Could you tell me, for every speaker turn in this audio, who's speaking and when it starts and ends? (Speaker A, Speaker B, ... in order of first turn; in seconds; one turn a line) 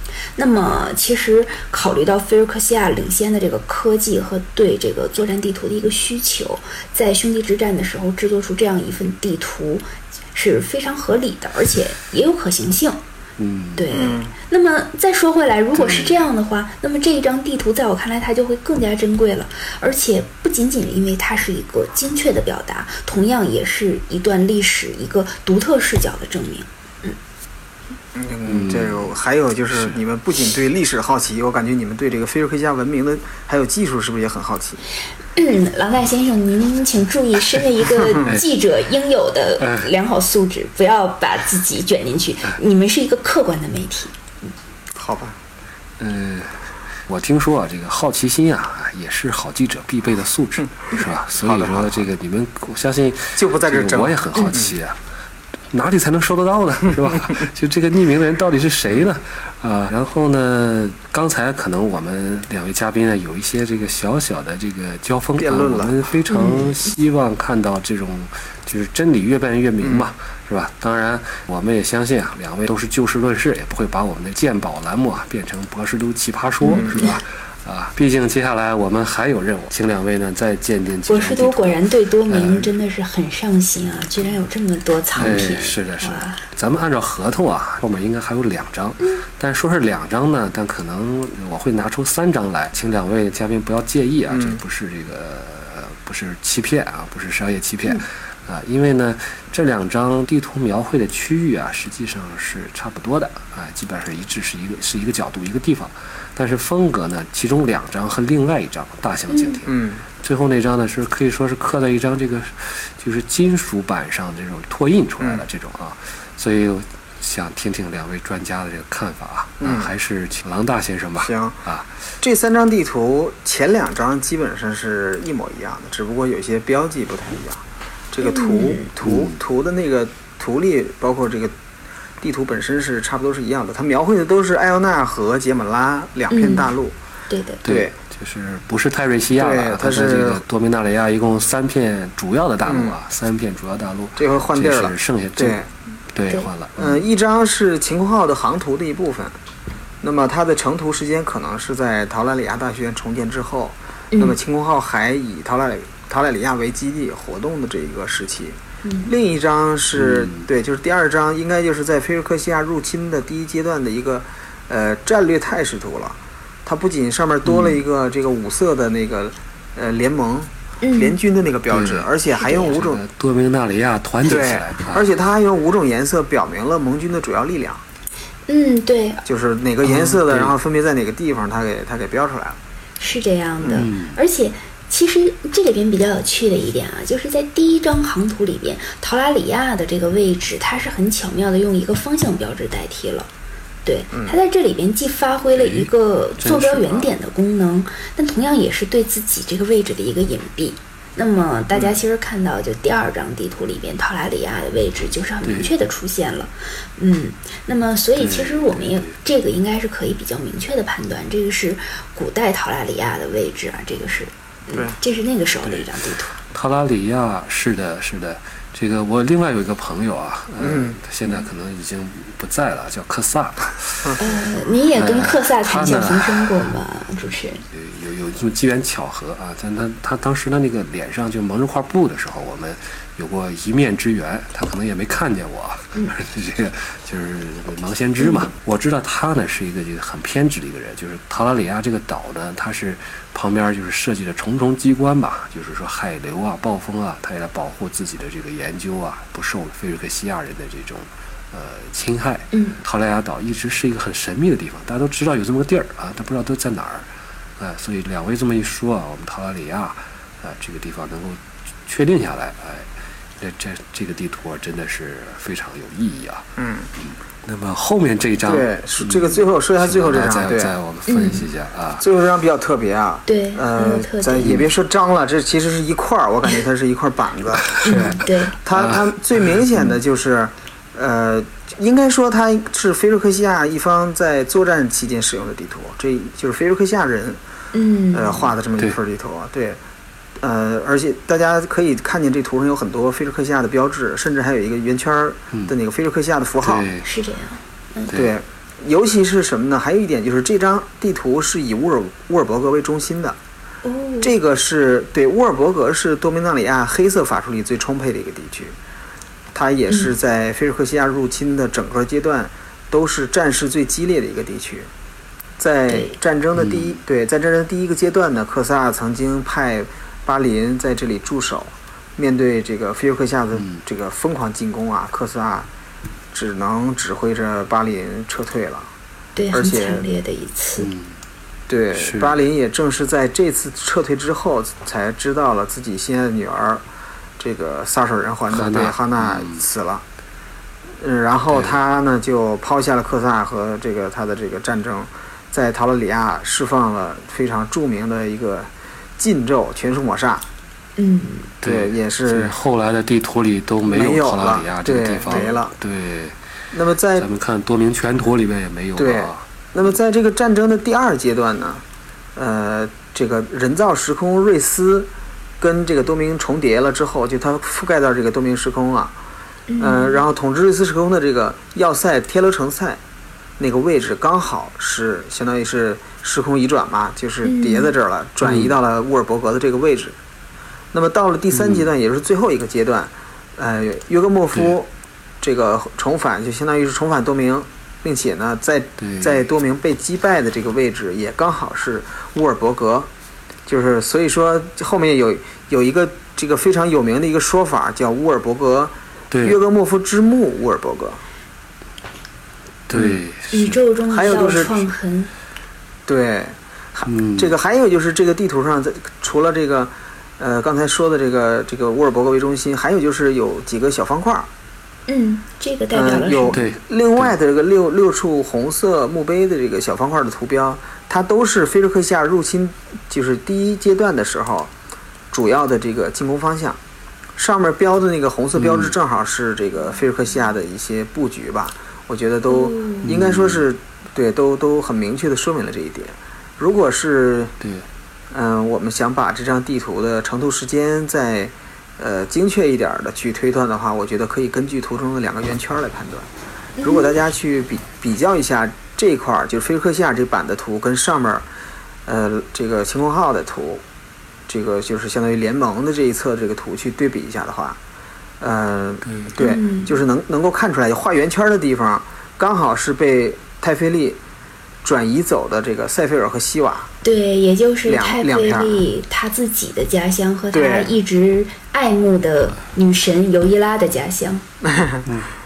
Speaker A: 0.3-13.0
Speaker B: 13.4-13.8
Speaker A: 13.8-27.1
Speaker C: 13.9-14.3
Speaker B: 15.8-16.2
Speaker C: 28.1-34.8
Speaker B: 28.4-29.2
Speaker A: 35.3-44.1
Speaker C: 38.0-38.3
Speaker B: 39.6-39.9
Speaker C: 44.9-45.4
Speaker B: 46.0-55.0
Speaker C: 51.4-52.1
Speaker C: 53.4-54.7
Speaker B: 55.7-82.7
Speaker C: 65.4-66.0
Speaker A: 66.3-66.8
Speaker C: 69.8-70.1
Speaker A: 76.6-77.1
Speaker C: 76.7-77.0
Speaker A: 81.1-86.4
Speaker B: 85.1-121.9
Speaker C: 94.3-94.6
Speaker A: 109.3-109.6
Speaker C: 109.7-110.0
Speaker C: 119.6-119.9
Speaker C: 121.2-121.6
Speaker C: 122.2-131.5
Speaker A: 128.2-128.9
Speaker B: 129.0-129.4
Speaker C: 132.2-136.9
Speaker A: 136.3-136.7
Speaker A: 137.3-137.6
Speaker B: 137.6-145.6
Speaker C: 137.7-137.9
Speaker C: 139.3-140.4
Speaker C: 142.6-143.0
Speaker C: 144.2-145.7
Speaker B: 146.1-147.0
Speaker C: 146.8-149.3
Speaker C: 150.0-173.0
Speaker A: 158.8-159.1
Speaker B: 159.9-160.4
Speaker B: 167.4-167.8
Speaker A: 170.8-171.2
Speaker B: 171.7-172.1
Speaker A: 172.3-172.8
Speaker B: 172.7-175.1
Speaker C: 174.2-177.8
Speaker A: 178.5-179.2
Speaker C: 179.2-182.6
Speaker B: 179.8-180.5
Speaker A: 183.0-193.3
Speaker B: 183.7-184.2
Speaker A: 193.8-216.4
Speaker B: 195.5-197.1
Speaker C: 201.7-202.0
Speaker B: 205.4-205.7
Speaker B: 208.2-209.1
Speaker C: 214.7-215.0
Speaker B: 216.5-224.2
Speaker C: 220.6-221.0
Speaker A: 224.2-227.6
Speaker B: 224.9-226.7
Speaker B: 227.7-257.1
Speaker A: 238.2-238.5
Speaker A: 252.5-252.8
Speaker B: 257.6-272.0
Speaker C: 266.6-266.9
Speaker C: 268.4-270.7
Speaker A: 271.1-271.4
Speaker C: 272.0-287.4
Speaker A: 273.3-274.6
Speaker A: 277.8-278.6
Speaker B: 278.7-279.0
Speaker A: 287.7-288.5
Speaker C: 288.1-289.8
Speaker C: 290.4-296.9
Speaker B: 296.6-297.1
Speaker A: 297.0-298.1
Speaker B: 298.1-298.3
Speaker C: 298.1-303.4
Speaker A: 303.8-304.3
Speaker C: 304.2-308.7
Speaker C: 309.5-314.9
Speaker A: 309.9-310.1
Speaker C: 315.6-325.7
Speaker A: 315.9-316.1
Speaker B: 316.5-316.9
Speaker C: 326.3-328.9
Speaker A: 329.4-330.9
Speaker C: 329.5-330.0
Speaker B: 330.8-331.1
Speaker C: 331.7-336.8
Speaker B: 331.9-332.5
Speaker C: 337.4-340.0
Speaker B: 338.5-339.6
Speaker C: 341.0-350.4
Speaker A: 351.0-351.5
Speaker C: 351.6-352.6
Speaker B: 351.6-356.4
Speaker C: 353.9-355.7
Speaker C: 356.7-357.3
Speaker B: 357.1-359.4
Speaker C: 359.0-361.8
Speaker C: 362.4-369.1
Speaker A: 369.7-370.2
Speaker C: 369.8-373.0
Speaker C: 373.6-380.2
Speaker A: 377.4-377.9
Speaker B: 378.4-378.8
Speaker C: 380.9-384.9
Speaker B: 381.5-381.9
Speaker C: 385.4-393.1
Speaker B: 389.0-389.4
Speaker C: 393.7-401.2
Speaker B: 399.3-399.6
Speaker B: 402.9-403.8
Speaker C: 402.9-403.2
Speaker A: 403.5-405.3
Speaker C: 404.1-404.9
Speaker C: 406.1-414.5
Speaker B: 407.1-407.5
Speaker A: 415.1-416.6
Speaker C: 415.9-424.7
Speaker B: 416.5-417.3
Speaker C: 425.3-426.8
Speaker C: 427.4-437.6
Speaker B: 428.6-428.9
Speaker A: 432.5-433.1
Speaker B: 433.0-433.6
Speaker B: 437.6-437.9
Speaker C: 438.3-446.3
Speaker A: 446.8-447.2
Speaker C: 446.8-451.4
Speaker C: 452.1-453.8
Speaker C: 454.5-457.8
Speaker C: 458.4-464.2
Speaker A: 459.4-460.0
Speaker C: 464.8-466.9
Speaker A: 467.0-474.4
Speaker C: 467.9-468.8
Speaker C: 470.5-471.0
Speaker C: 474.6-475.1